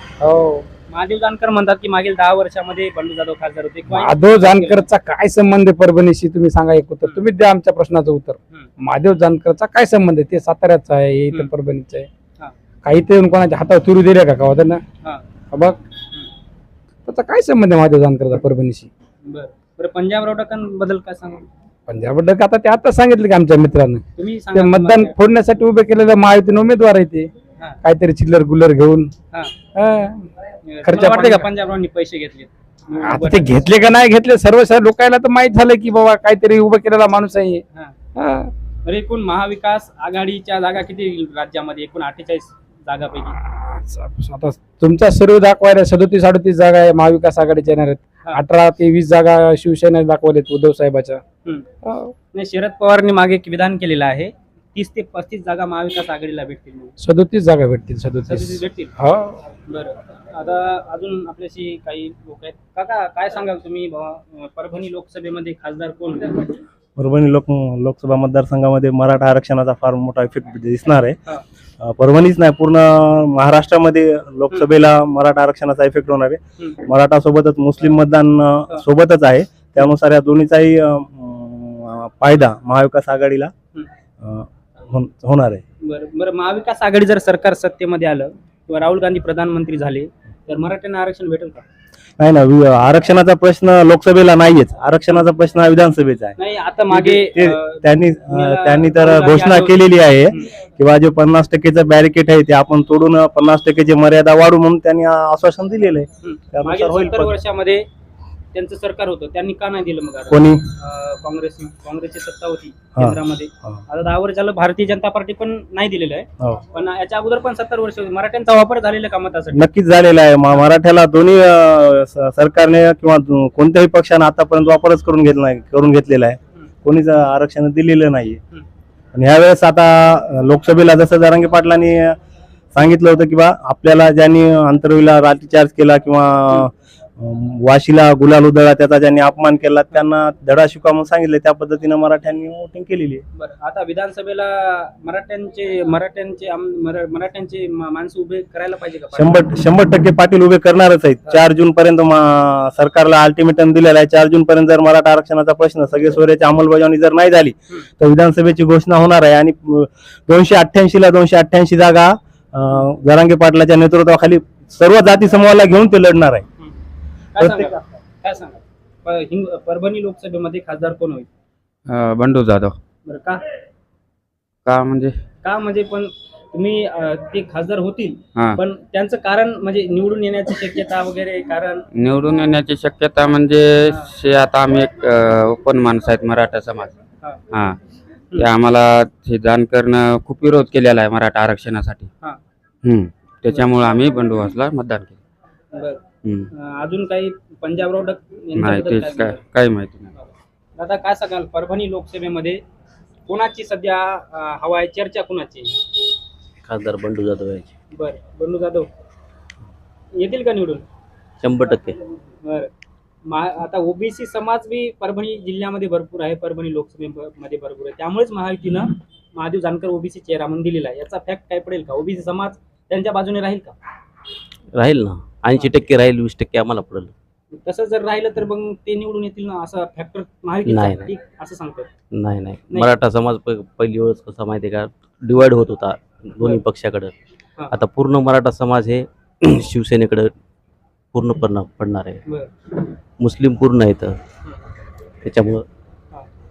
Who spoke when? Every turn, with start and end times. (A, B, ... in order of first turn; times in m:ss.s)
0:00.2-0:00.6 A
0:00.9-0:04.8 B
0:03.9-0:12.1 A
0:12.8-0:14.8 A
0:15.5-0:15.8 A
0:17.1-0:18.9 A
0:19.2-0:21.5 B
0:21.9-0:27.3 A
0:24.2-0:25.1 B
0:27.8-0:29.1 A
0:29.7-0:30.3 A
0:30.7-0:33.6 B
0:30.8-0:31.5 A
0:33.0-0:37.6 A
0:38.2-0:38.5 A
0:38.8-0:43.4 B
0:43.6-0:51.2 A
0:51.8-0:52.1 A
0:52.3-0:56.9 B
0:57.0-0:59.4 A
0:58.2-0:58.9 B
0:59.7-1:06.6 B
1:07.0-1:11.2 C
1:11.8-1:23.5 C
1:24.2-1:25.6 C
1:25.8-1:31.6 B
1:32.2-1:36.4 C
1:36.4-1:40.5 B
1:36.9-1:47.3 C
1:46.2-1:47.8 B
1:48.5-1:59.6 B
1:50.3-1:50.6 C
1:53.0-1:53.8 C
1:59.5-2:08.4 C
2:09.1-2:12.2 C
2:12.7-2:23.2 C
2:23.3-2:29.4 B
2:29.1-2:46.4 C
2:47.3-2:51.3 B
2:47.4-2:47.7 C
2:51.9-2:52.8 D
2:53.0-2:53.4 B
2:54.6-2:55.1 D
2:55.4-3:01.8 B
3:02.0-3:06.9 D
3:07.5-3:07.8 D
3:08.4-3:12.1 D
3:12.8-3:15.2 D
3:15.7-3:16.0 B
3:16.2-3:16.5 D
3:16.5-3:19.4 B
3:18.6-3:20.1 D
3:20.1-3:22.6 B
3:23.3-3:25.8 B
3:26.6-3:27.7 E
3:27.9-3:28.9 B
3:30.2-3:30.8 B
3:31.4-3:32.0 E
3:32.4-3:32.7 B
3:33.2-3:43.7 B
3:44.7-3:47.1 E
3:47.6-3:51.9 B
3:50.6-3:51.1 E
3:52.1-3:57.1 E
3:52.7-3:53.0 B
3:57.7-4:00.3 E
4:01.1-4:02.2 E
4:03.2-4:04.2 E
4:05.2-4:05.6 E